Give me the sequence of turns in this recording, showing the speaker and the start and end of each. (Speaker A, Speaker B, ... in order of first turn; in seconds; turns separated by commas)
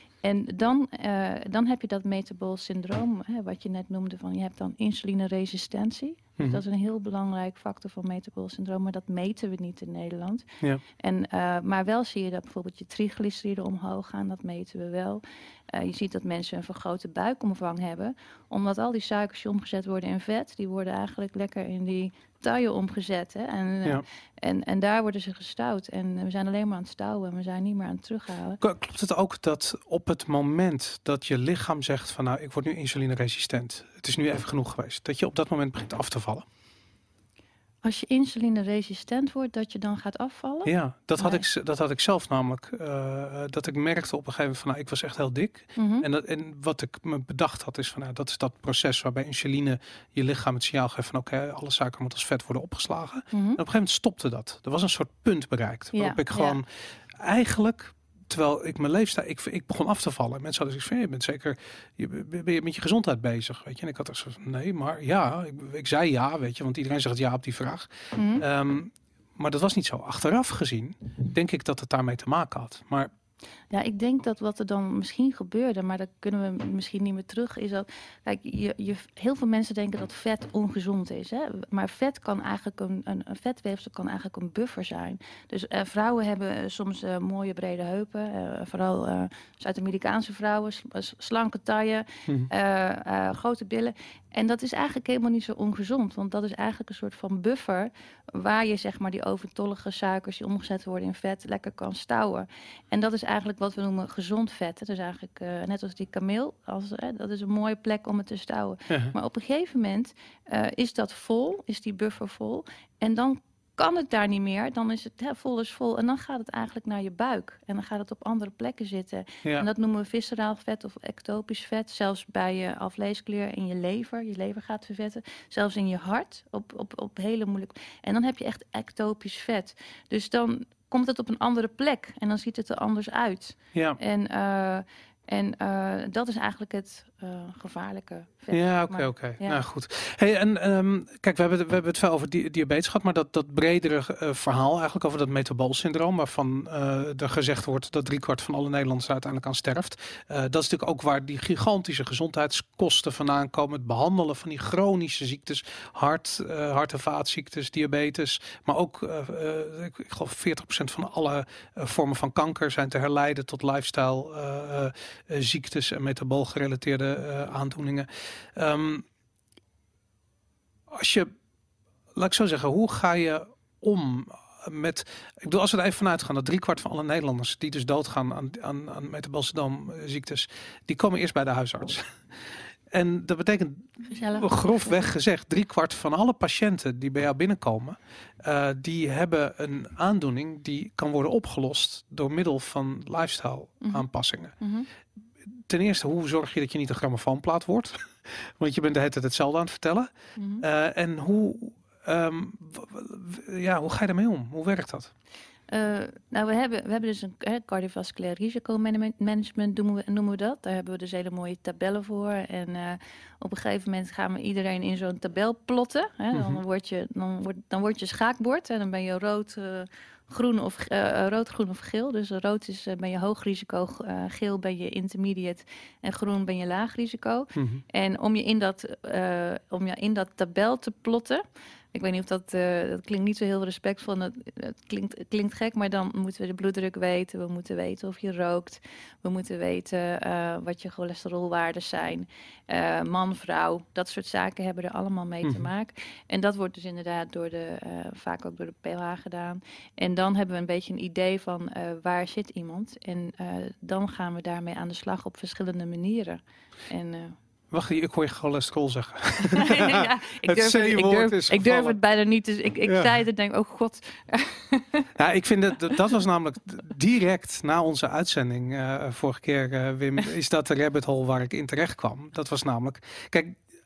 Speaker A: 0.2-10.5, Speaker A: 11.0-28.6, Speaker B: 28.6-36.5, Speaker A: 37.8-41.4, Speaker B: 40.7-56.6, Speaker A: 45.8-46.0, Speaker A: 53.3-53.6, Speaker A: 56.0-56.6, Speaker B: 57.2-73.1, Speaker A: 68.2-68.4, Speaker A: 73.7-139.6, Speaker B: 108.9-109.1, Speaker B: 138.5-169.1, Speaker B: 170.9-171.3, Speaker B: 172.1-182.1, Speaker B: 182.9-194.6, Speaker A: 184.1-184.9, Speaker A: 194.6-194.9, Speaker B: 195.7-200.1, Speaker A: 200.4-200.6, Speaker B: 200.6-205.1, Speaker A: 205.7-257.4, Speaker B: 216.3-216.6, Speaker B: 227.6-227.8, Speaker B: 257.7-262.0, Speaker A: 259.5-265.1, Speaker B: 262.9-263.2, Speaker B: 265.2-273.6